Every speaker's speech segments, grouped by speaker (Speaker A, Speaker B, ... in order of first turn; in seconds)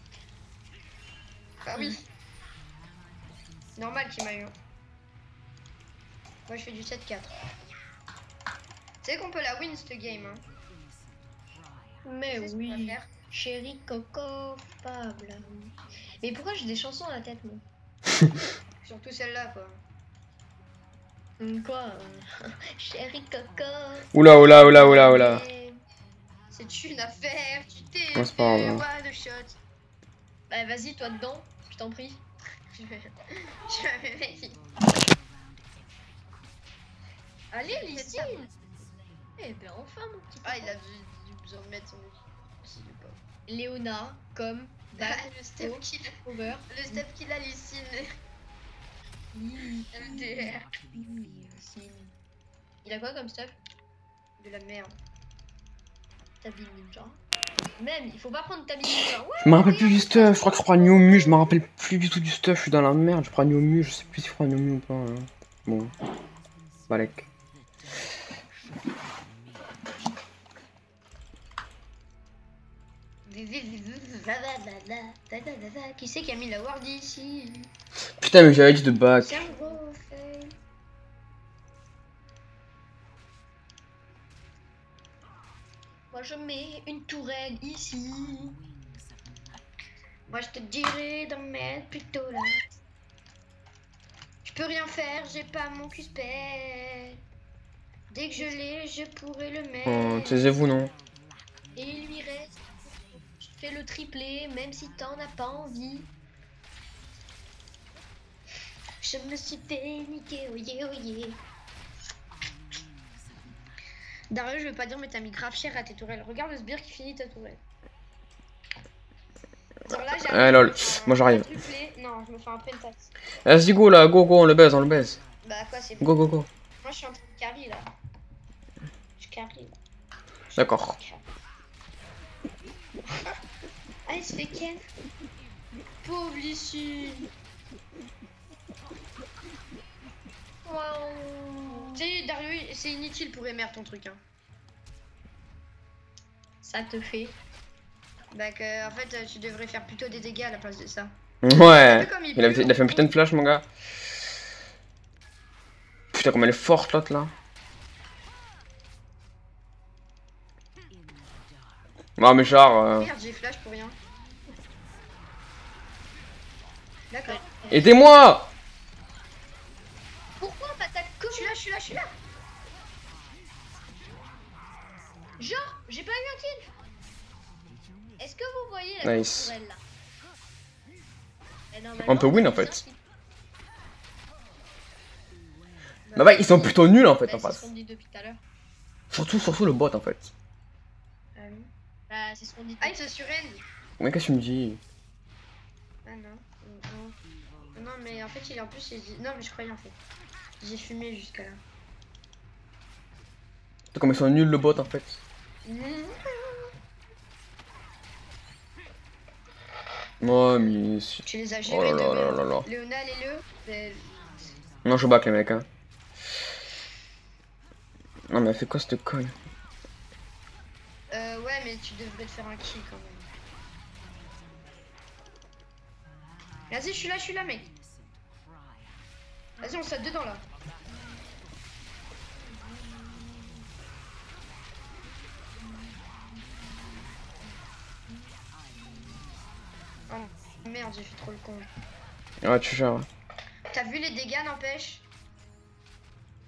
Speaker A: 1.6-2.0, 3.8-4.5, 6.5-7.4, 9.0-10.4, 12.3-13.1, 18.8-19.8, 26.5-29.6, 32.7-34.6, 37.5-38.5, 40.4-43.2, 45.0-48.1, 49.9-50.7, 54.4-54.9, 73.2-77.7, 79.2-80.5, 90.3-92.6, 94.4-97.2, 98.1-100.5, 109.0-111.4, 114.3-117.6, 119.8-123.1, 125.4-127.9, 129.2-129.7, 130.5-131.2, 133.1-133.4, 134.1-134.8, 136.0-137.3, 141.9-144.2, 148.3-153.1, 163.0-164.0, 167.1-167.5, 171.3-172.1, 186.1-186.8, 191.3-191.7, 192.8-193.6, 196.0-197.2, 197.7-200.0, 200.6-201.6, 205.6-206.7, 211.2-214.6, 221.1-223.3, 226.7-227.7, 229.6-230.4, 240.1-241.7, 243.7-245.1
Speaker B: 12.0-17.6, 21.4-25.8, 30.5-32.2, 37.6-38.5, 39.4-40.8, 43.5-47.0, 49.3-52.0, 52.8-53.5, 56.4-57.2, 57.8-61.5, 79.5-79.8, 86.1-88.6, 101.8-106.1, 140.6-142.0, 146.6-147.4, 167.2-167.7, 170.4-171.6, 175.4-176.7, 178.2-179.8, 181.7-183.0, 187.2-188.4, 192.1-193.1
Speaker C: 24.1-25.4, 28.1-28.8, 59.4-65.9, 66.9-67.2, 78.2-79.5, 99.8-100.9, 120.2-121.5, 123.4-125.2, 126.0-126.5, 130.6-130.9, 151.4-153.6, 156.1-157.3, 162.2-163.1, 167.7-168.5, 179.0-179.5, 182.0-182.8, 186.2-187.6, 189.1-190.3, 194.0-194.8, 203.9-205.2, 210.2-212.7, 214.8-215.7, 218.3-219.3, 242.4-243.1